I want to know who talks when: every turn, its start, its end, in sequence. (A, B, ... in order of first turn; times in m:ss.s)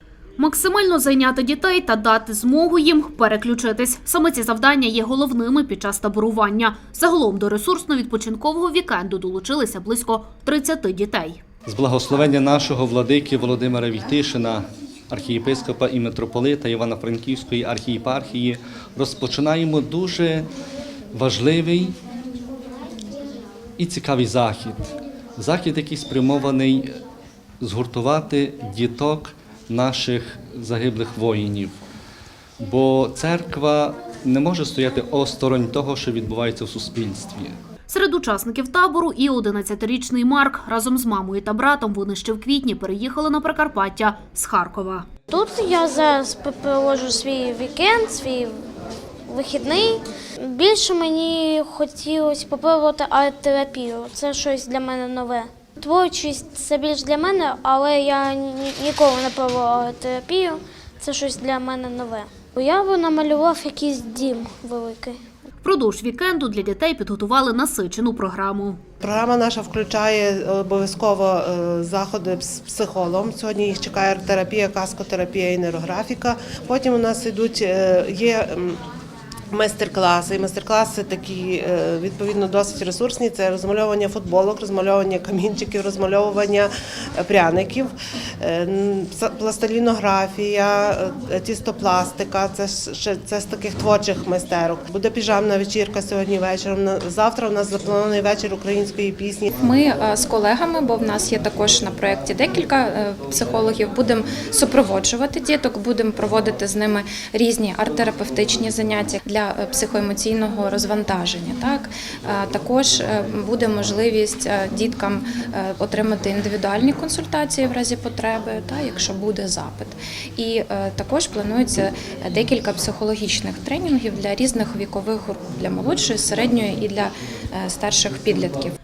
0:00.4-0:11.4 A
0:11.6-0:20.5 B
0:21.1-0:22.0 B
0:23.8-0:26.9 B
0:27.6-0:31.8 B
0:32.6-0:37.6 B
0:37.9-0:45.1 A
0:45.3-0:48.6 C
0:49.3-1:05.2 C
1:05.6-1:08.8 A
1:09.0-1:18.8 D
1:19.5-1:39.5 D
1:39.6-2:08.7 E